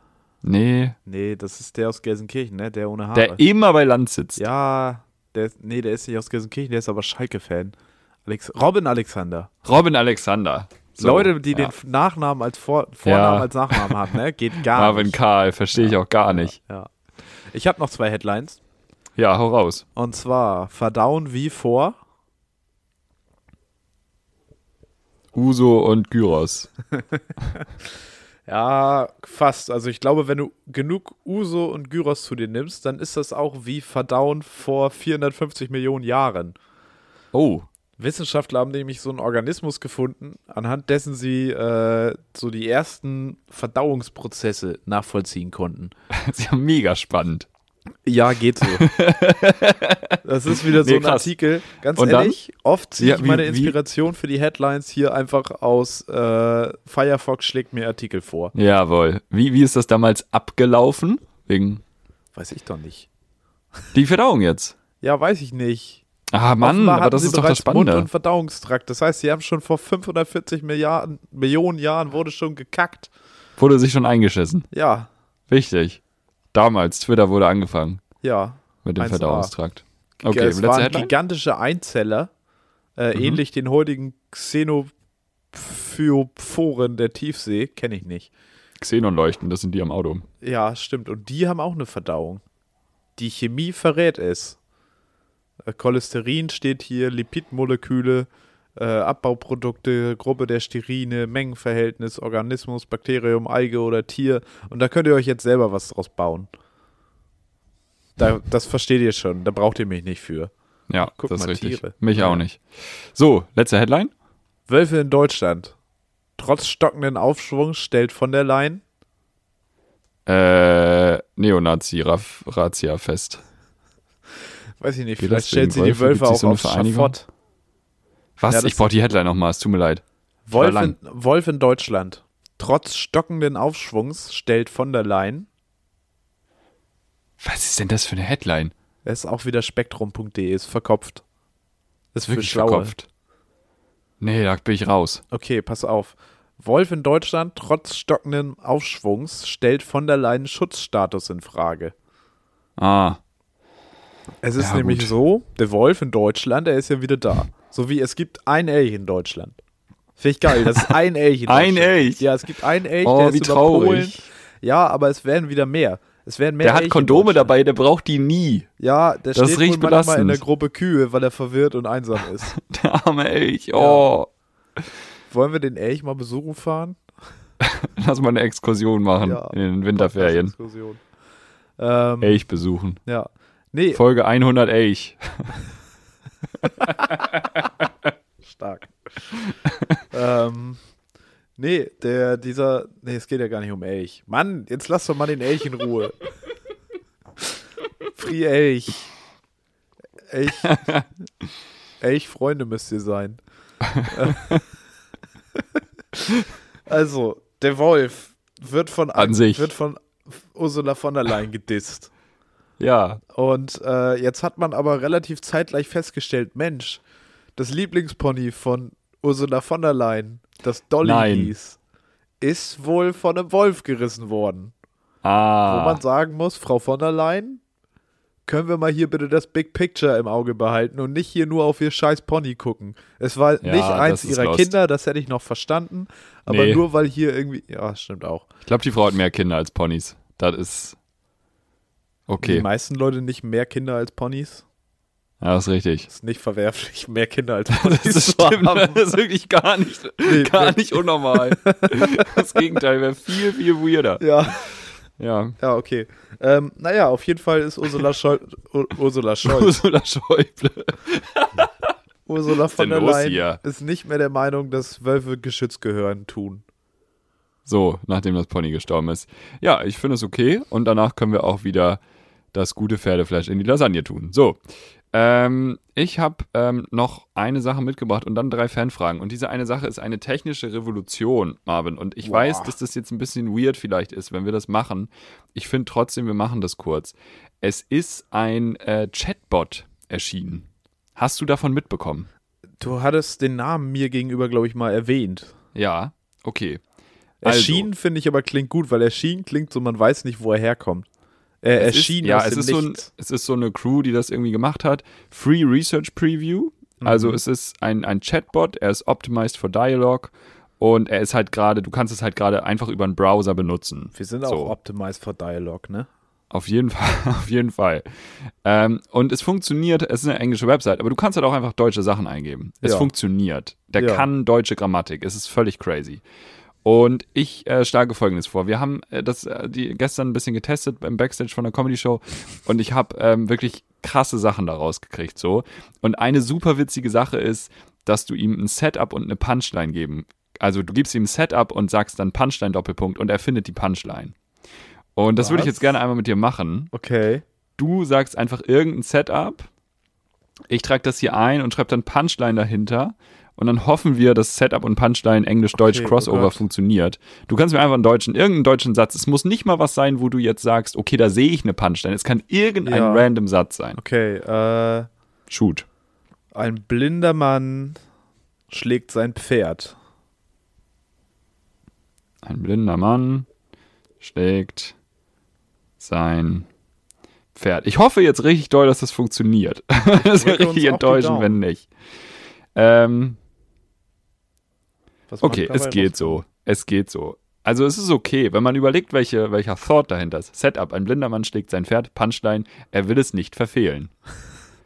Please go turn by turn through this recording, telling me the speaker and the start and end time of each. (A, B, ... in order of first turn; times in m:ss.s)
0:00.4-0:01.0 A
0:01.0-0:03.4 B
0:03.1-0:04.4 A
0:04.4-0:09.5 B
0:09.6-0:11.7 A
0:11.0-0:15.2 B
0:13.0-0:16.6 A
0:15.7-0:16.9 B
0:17.5-0:18.6 B
0:19.2-0:19.8 A
0:20.0-0:22.0 B
0:25.3-0:26.7 A
0:28.5-0:36.6 B
0:37.3-0:37.7 A
0:38.0-0:45.9 B
0:46.1-0:47.5 A
0:48.0-0:48.9 B
0:48.6-0:51.3 A
0:50.2-0:58.5 B
0:51.9-0:52.4 A
0:53.0-0:53.8 A
0:58.6-1:01.8 A
1:02.3-1:03.1 B
1:03.9-1:04.7 A
1:05.0-1:06.0 B
1:06.3-1:08.1 A
1:06.6-1:13.1 B
1:13.6-1:14.7 A
1:14.7-1:15.1 B
1:15.5-1:16.0 A
1:16.5-1:18.0 A
1:18.2-1:19.5 B
1:18.8-1:21.1 A
1:20.3-1:22.3 B
1:23.0-1:24.9 B
1:23.1-1:23.4 A
1:25.5-1:28.3 B
1:28.8-1:30.3 A
1:30.4-1:32.4 B
1:33.2-1:34.6 B
1:35.6-1:46.5 B
1:48.2-1:50.5 B
1:50.9-1:54.1 A
1:51.0-1:52.4 B
1:54.7-1:55.7 B
1:56.4-1:58.8 B
2:00.3-2:03.4 A
2:04.8-2:07.3 B
2:05.2-2:07.1 A
2:08.4-2:10.0 A
2:08.5-2:08.9 B
2:10.4-2:15.5 B
2:10.6-2:10.9 A
2:17.4-2:18.7 A
2:19.0-2:21.2 B
2:22.1-2:22.9 B
2:22.3-2:23.0 A
2:24.2-2:25.2 A
2:25.3-2:31.9 B
2:32.8-2:33.2 A
2:34.4-2:39.6 B
2:34.6-2:35.1 A
2:40.2-2:47.5 B
2:41.5-2:42.3 A
2:43.0-2:44.3 A
2:46.6-2:48.7 A
2:48.8-2:52.5 B
2:49.3-2:50.4 A
2:52.5-2:54.3 A
2:53.8-2:54.1 B
2:55.3-2:57.0 B
2:57.6-3:00.5 A
2:59.2-3:01.0 B
3:01.8-3:02.4 B
3:02.2-3:03.0 A
3:03.0-3:04.0 B
3:03.9-3:05.5 A
3:06.6-3:07.6 A
3:08.4-3:08.9 B
3:09.4-3:10.0 A
3:10.1-3:10.8 B
3:11.6-3:16.2 B
3:18.1-3:19.1 B
3:20.3-3:21.0 B
3:20.6-3:21.0 A
3:22.0-3:23.4 B
3:23.8-3:24.6 A
3:24.0-3:24.6 B
3:26.9-3:32.1 B
3:29.2-3:29.7 A
3:32.8-3:33.2 A
3:33.3-3:37.0 B
3:37.6-3:41.8 B
3:41.0-3:41.5 A
3:42.4-3:44.7 B
3:45.2-3:46.0 A
3:45.7-3:47.6 B
3:48.4-3:58.5 B
3:53.6-3:54.7 A
3:56.5-3:56.8 A
3:58.6-4:01.0 A
4:02.3-4:02.6 A
4:02.4-4:04.6 B
4:05.4-4:06.1 A
4:06.1-4:09.0 B
4:07.7-4:14.2 A
4:10.2-4:12.6 B
4:14.2-4:14.7 B
4:15.2-4:15.6 A
4:15.6-4:19.8 B
4:19.4-4:21.9 A
4:22.3-4:26.6 B
4:22.7-4:23.6 A
4:27.6-4:32.0 A
4:32.5-4:34.6 A
4:35.1-4:52.3 A
4:42.2-4:42.8 B
4:52.8-4:55.5 B
4:55.7-4:56.8 A
4:57.4-5:01.1 B
4:57.4-4:57.9 A
5:01.6-5:03.1 B
5:01.8-5:14.7 A
5:07.0-5:07.4 B
5:14.1-5:16.1 B
5:16.5-5:26.2 A
5:22.8-5:23.1 B
5:24.0-5:24.3 B
5:26.8-5:44.3 A
5:45.2-5:46.9 A
5:45.4-5:46.0 B
5:46.9-5:47.4 B
5:47.8-5:49.7 A
5:50.7-6:04.0 A
5:55.8-5:56.6 B
6:02.8-6:03.3 B
6:04.0-6:05.1 B
6:05.5-6:05.9 A
6:06.5-6:08.0 B
6:08.7-6:10.0 B
6:12.4-6:13.5 A
6:14.2-6:15.0 A
6:16.0-6:16.7 A
6:17.6-6:21.9 A
6:20.1-6:21.6 B
6:22.7-6:23.4 A
6:25.3-6:26.4 B
6:25.4-6:34.1 A